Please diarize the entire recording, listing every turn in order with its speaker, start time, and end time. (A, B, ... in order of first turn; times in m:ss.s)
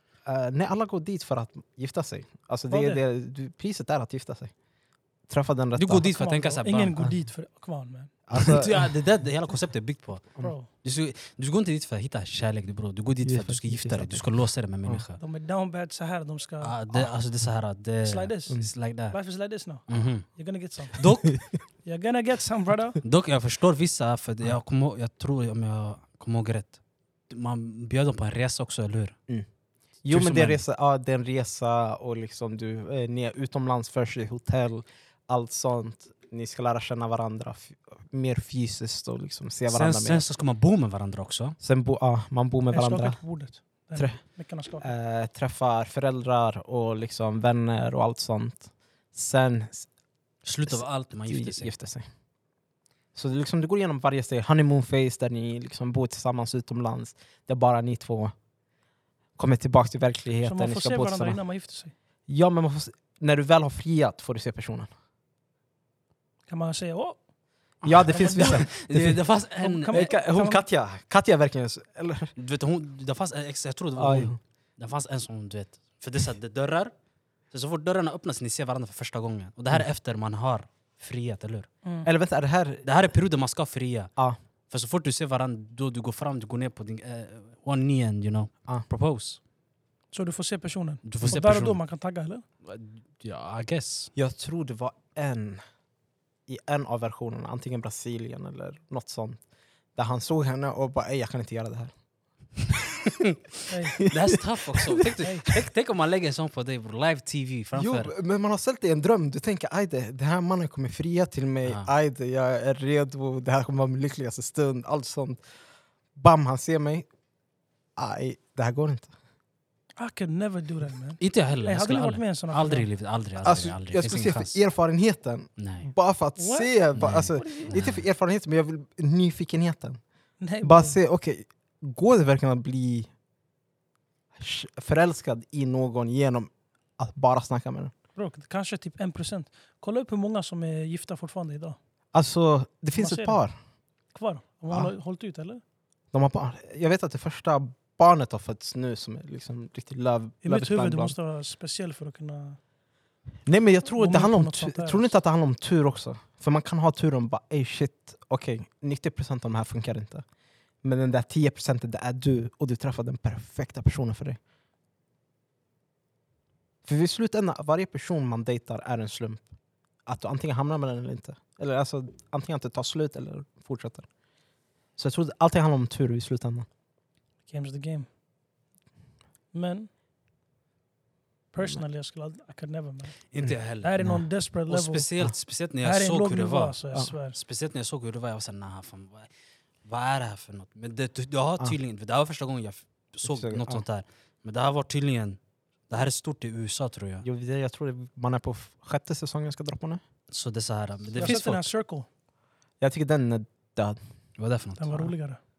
0:00.2-0:04.5 A
0:02.7-0:03.0 B
0:05.3-0:06.1 A
0:05.8-0:07.0 C
0:06.0-0:08.1 B
0:08.3-0:08.9 A
0:08.3-0:15.2 C
0:10.4-0:10.7 B
0:13.2-0:14.2 A
0:15.2-0:16.7 B
0:16.6-0:19.2 C
0:18.0-0:21.1 B
0:19.9-0:20.2 C
0:20.9-0:21.4 C
0:21.8-0:23.0 B
0:23.0-0:26.8 C
0:27.3-0:29.2 C
0:30.0-0:40.2 A
0:30.1-0:30.6 C
0:39.7-0:41.6 C
0:41.6-0:43.2 A
0:42.7-0:44.9 B
0:44.0-0:44.2 A
0:44.8-0:49.9 A
0:50.4-0:51.7 C
0:50.7-0:52.1 A
0:53.1-0:58.3 A
0:59.4-1:01.4 A
1:00.4-1:01.9 B
1:02.3-1:04.9 A
1:06.5-1:07.2 B
1:07.8-1:09.2 A
1:07.8-1:10.0 C
1:08.1-1:08.7 B
1:09.6-1:10.6 B
1:09.9-1:12.3 A
1:12.4-1:16.9 C
1:14.0-1:14.4 A
1:17.5-1:21.7 C
1:22.0-1:22.9 A
1:22.8-1:24.1 C
1:24.7-1:29.4 C
1:30.1-1:32.4 B
1:31.0-1:31.8 C
1:32.6-1:34.1 C
1:34.1-1:35.6 A
1:36.5-1:39.4 A
1:39.9-1:41.9 A
1:43.7-1:44.0 B
1:44.0-1:45.0 A
1:44.0-1:48.1 C
1:45.2-1:45.5 B
1:47.7-1:55.4 A
1:56.2-1:57.1 A
1:58.0-1:59.1 A
2:00.0-2:02.9 B
2:01.2-2:04.6 C
2:03.4-2:10.0 A
2:05.6-2:05.9 C
2:06.4-2:07.8 B
2:07.0-2:08.0 C
2:10.4-2:11.0 B
2:10.6-2:13.1 A
2:14.4-2:17.9 A
2:18.2-2:21.8 B
2:22.1-2:23.6 A
2:22.9-2:23.4 B
2:24.1-2:25.6 B
2:26.1-2:31.1 A
2:30.4-2:32.6 B
2:33.4-2:40.2 A
2:34.0-2:35.1 B
2:40.8-2:44.4 A
2:46.8-2:49.5 A
2:50.0-2:54.1 A
2:55.0-2:56.6 A
2:57.5-2:58.1 B
2:59.5-2:59.9 B
3:01.5-3:03.2 B
3:03.3-3:04.0 C
3:03.8-3:05.1 B
3:04.7-3:06.8 C
3:05.8-3:07.4 B
3:07.3-3:09.3 C
3:09.8-3:17.2 C
3:13.2-3:13.8 A
3:17.2-3:20.0 A
3:20.3-3:21.7 C
3:21.2-3:22.1 B
3:22.8-3:24.0 A
3:24.4-3:25.0 C
3:24.8-3:25.4 B